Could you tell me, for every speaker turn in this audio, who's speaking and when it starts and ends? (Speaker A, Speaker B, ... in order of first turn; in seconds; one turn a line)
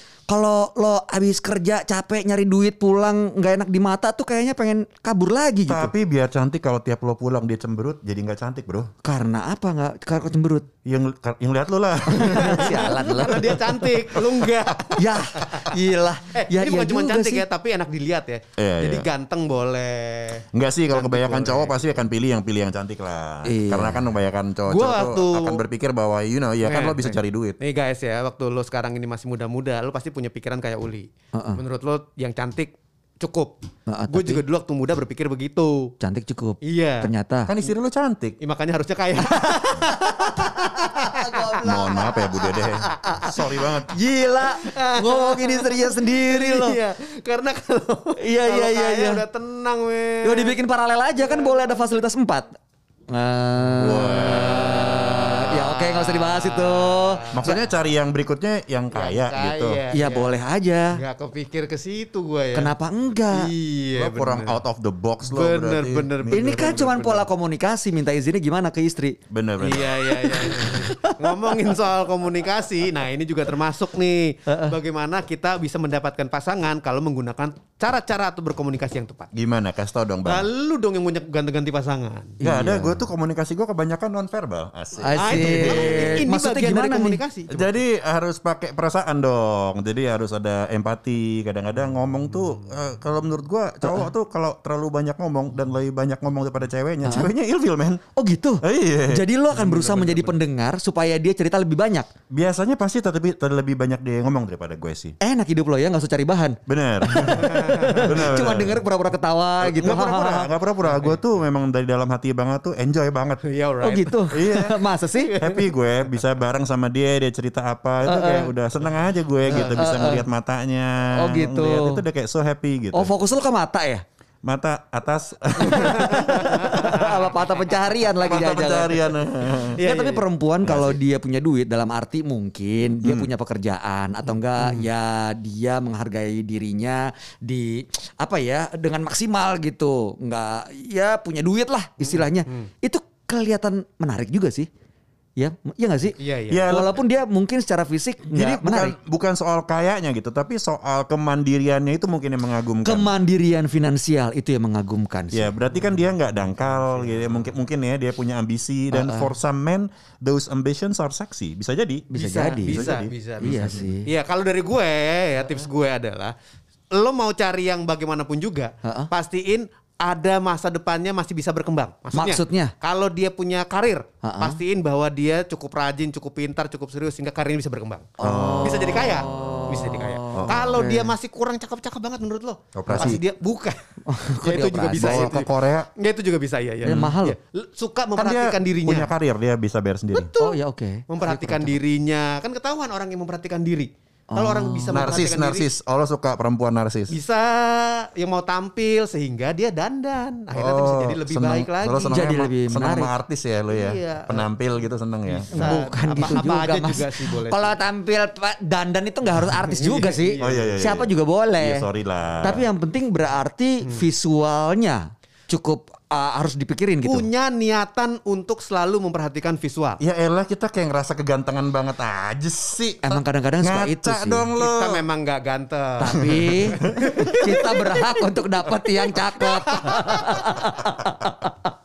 Speaker A: 0.3-5.9
Speaker B: 5.7-8.9
Speaker A: 9.0-10.7
Speaker B: 10.8-14.5
Speaker C: 12.2-15.7
Speaker A: 12.2-13.4
Speaker A: 15.0-17.4
Speaker C: 16.4-21.8
Speaker B: 18.6-19.1
Speaker B: 20.5-27.6
Speaker A: 23.5-24.1
Speaker C: 24.7-25.6
Speaker C: 26.6-33.5
Speaker A: 31.3-31.6
Speaker A: 33.9-34.4
Speaker C: 34.1-35.9
Speaker A: 36.0-37.5
Speaker C: 36.6-37.1
Speaker B: 37.5-38.4
Speaker C: 38.4-43.4
Speaker A: 40.2-43.2
Speaker B: 41.6-44.0
Speaker A: 43.9-46.8
Speaker C: 44.5-50.6
Speaker A: 48.2-49.2
Speaker A: 50.2-52.5
Speaker C: 51.2-51.6
Speaker A: 53.1-57.6
Speaker B: 53.7-55.5
Speaker C: 55.6-57.6
Speaker B: 57.3-59.8
Speaker C: 58.9-60.4
Speaker A: 59.9-61.0
Speaker C: 60.9-62.7
Speaker A: 62.5-63.5
Speaker C: 63.3-64.6
Speaker B: 64.0-66.8
Speaker C: 65.2-67.3
Speaker A: 66.3-69.2
Speaker B: 69.3-70.3
Speaker C: 69.6-79.3
Speaker A: 70.3-71.3
Speaker A: 74.5-74.8
Speaker B: 79.3-80.5
Speaker C: 80.2-82.4
Speaker A: 82.4-83.1
Speaker B: 82.4-86.3
Speaker A: 85.0-87.2
Speaker C: 85.2-87.8
Speaker B: 87.5-98.0
Speaker A: 93.8-94.1
Speaker A: 97.0-97.3
Speaker A: 98.2-102.1
Speaker B: 98.6-99.2
Speaker C: 99.5-100.4
Speaker B: 102.3-105.2
Speaker A: 105.2-110.5
Speaker B: 106.7-108.8
Speaker C: 107.2-108.2
Speaker B: 109.6-113.4
Speaker C: 110.8-111.2
Speaker C: 113.4-115.7
Speaker A: 113.8-115.3
Speaker B: 114.3-114.8
Speaker B: 115.4-123.1
Speaker A: 118.0-118.5
Speaker C: 118.1-118.5
Speaker C: 119.5-119.9
Speaker A: 119.5-120.3
Speaker A: 121.2-122.0
Speaker A: 122.9-124.0
Speaker B: 124.5-126.8
Speaker C: 125.6-127.0
Speaker A: 125.8-129.1
Speaker B: 128.2-129.8
Speaker C: 129.8-130.2
Speaker A: 129.8-144.7
Speaker B: 130.6-131.0
Speaker B: 133.0-133.3
Speaker C: 134.6-134.9
Speaker C: 142.0-142.7
Speaker A: 145.4-149.0
Speaker C: 146.2-146.9
Speaker B: 146.5-147.0
Speaker B: 148.3-153.1
Speaker A: 152.8-155.5
Speaker B: 155.3-162.1
Speaker C: 156.6-157.4
Speaker A: 158.9-159.3
Speaker A: 162.1-164.1
Speaker C: 162.1-166.3
Speaker B: 162.7-163.8
Speaker C: 166.9-183.8
Speaker A: 168.8-169.1
Speaker A: 172.1-172.7
Speaker A: 174.2-174.6
Speaker A: 178.2-181.1
Speaker B: 178.2-179.2
Speaker B: 180.3-180.8
Speaker B: 182.8-183.2
Speaker A: 182.9-183.2
Speaker A: 184.1-185.4
Speaker C: 184.4-189.1
Speaker B: 185.0-185.9
Speaker B: 186.8-187.1
Speaker A: 186.8-187.4
Speaker B: 188.2-190.3
Speaker C: 190.1-195.7
Speaker A: 190.4-191.8
Speaker A: 194.3-195.1
Speaker B: 194.9-197.2
Speaker C: 197.1-202.2
Speaker B: 200.5-205.8
Speaker A: 202.1-203.1
Speaker C: 203.7-204.5
Speaker C: 205.2-207.8
Speaker A: 205.5-211.9
Speaker C: 209.7-210.8
Speaker B: 210.4-212.7
Speaker A: 212.4-217.3
Speaker C: 217.0-220.0
Speaker B: 220.0-225.0
Speaker A: 223.0-224.5
Speaker C: 224.6-230.4
Speaker A: 226.0-231.5
Speaker B: 226.2-226.5
Speaker B: 230.6-231.4